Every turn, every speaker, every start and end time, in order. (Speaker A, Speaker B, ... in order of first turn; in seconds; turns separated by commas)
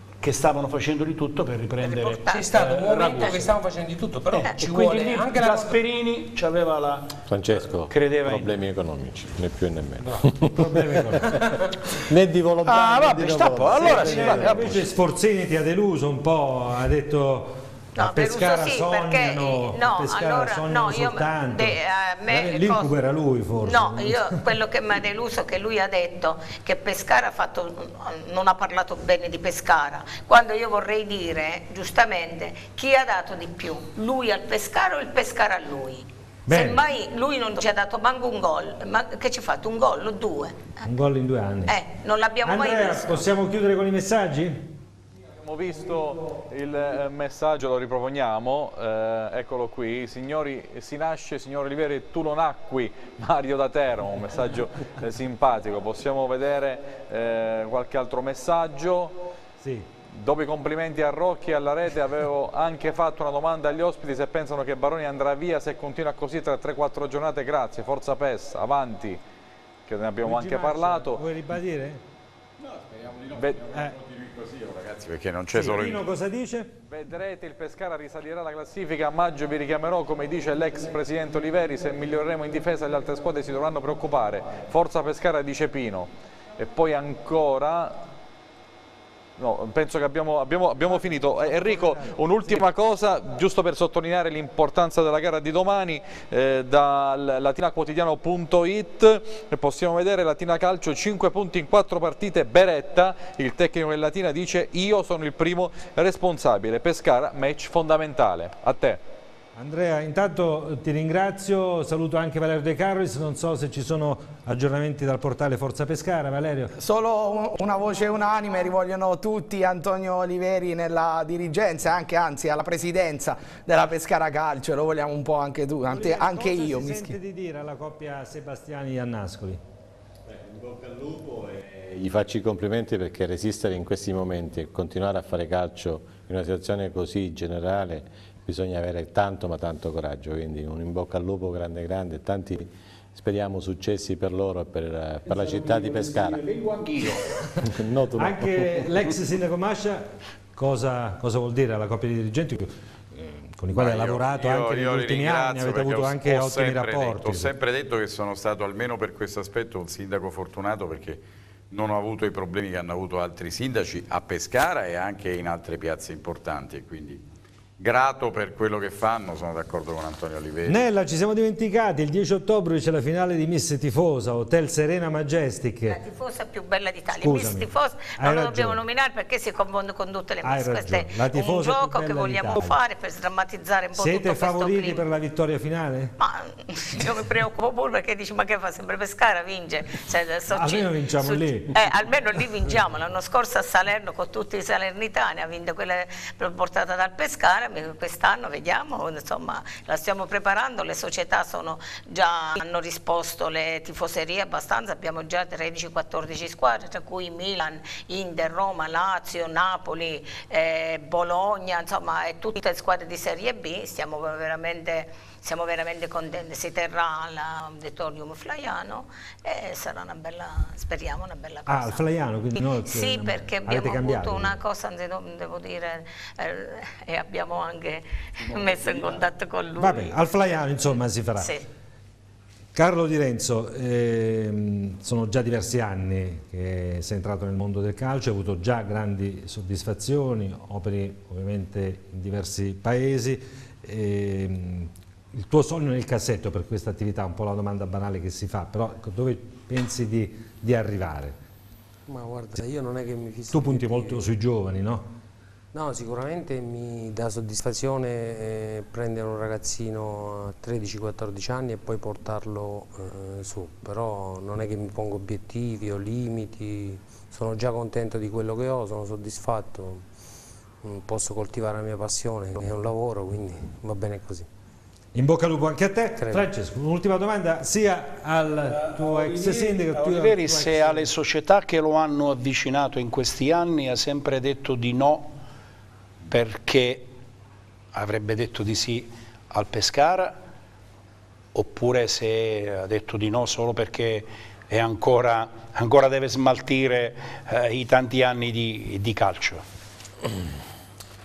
Speaker A: 0.2-3.5, Speaker B: 1.8-2.5, Speaker C: 2.3-5.8, Speaker B: 4.4-5.1, Speaker A: 4.5-7.2, Speaker D: 7.3-14.9, Speaker A: 7.9-8.6, Speaker E: 10.4-11.4, Speaker C: 11.4-11.7, Speaker A: 12.6-14.9, Speaker E: 13.8-24.4, Speaker B: 18.0-22.9, Speaker B: 23.6-40.6, Speaker E: 36.5-36.8, Speaker E: 40.8-41.8, Speaker B: 41.7-43.2, Speaker E: 42.4-44.6, Speaker F: 45.4-59.1, Speaker E: 59.6-59.9, Speaker F: 60.1-69.2, Speaker F: 69.9-71.2, Speaker E: 70.2-72.0, Speaker G: 72.7-76.1, Speaker F: 73.3-73.6, Speaker E: 75.5-76.7, Speaker F: 76.9-88.0, Speaker F: 89.4-109.0, Speaker E: 90.9-92.7, Speaker E: 109.6-116.7, Speaker H: 116.8-127.2, Speaker E: 125.9-129.6, Speaker D: 130.3-146.4, Speaker A: 145.2-147.4, Speaker D: 147.6-149.1, Speaker E: 148.2-157.5, Speaker G: 153.7-167.2, Speaker G: 167.8-170.9, Speaker E: 170.7-176.0, Speaker B: 175.9-185.0, Speaker E: 177.2-178.8, Speaker E: 180.4-182.8, Speaker E: 183.9-186.2, Speaker B: 186.2-222.0, Speaker E: 190.5-191.8, Speaker E: 221.7-224.6, Speaker B: 222.6-230.2, Speaker E: 229.8-231.5, Speaker B: 231.4-231.7, Speaker E: 232.8-251.4, Speaker C: 252.1-254.3, Speaker E: 253.5-255.1, Speaker C: 255.7-270.1, Speaker C: 270.8-274.5, Speaker E: 275.1-281.1, Speaker C: 276.2-276.5, Speaker A: 278.7-285.3, Speaker A: 286.3-287.1, Speaker A: 287.9-290.4, Speaker A: 291.5-299.6, Speaker D: 300.2-300.5